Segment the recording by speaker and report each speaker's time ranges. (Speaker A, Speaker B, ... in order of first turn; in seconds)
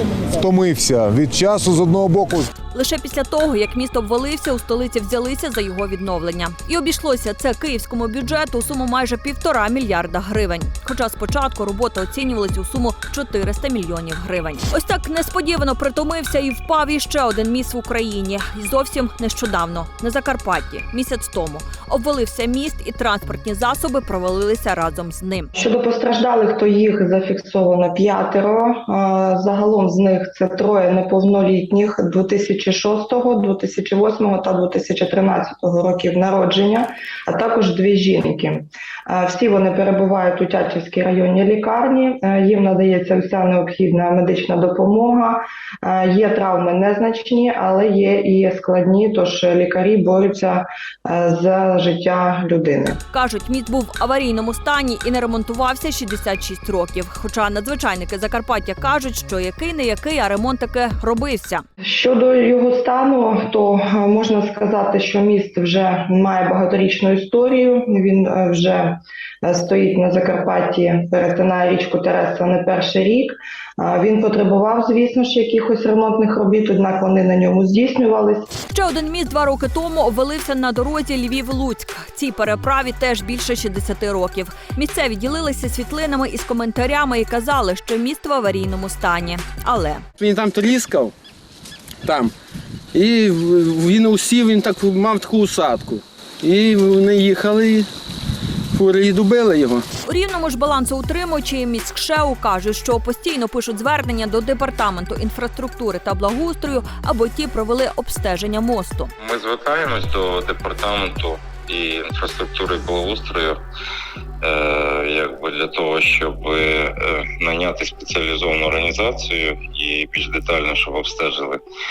Speaker A: 0.4-2.5
Speaker B: 2.7-25.5, 53.1-61.6, 78.7-90.0, 100.0-109.1
Speaker C: 25.6-53.0, 61.8-78.5
Speaker D: 90.2-91.1, 93.0-97.8, 98.8-99.8
Speaker E: 109.2-113.6, 114.4-121.6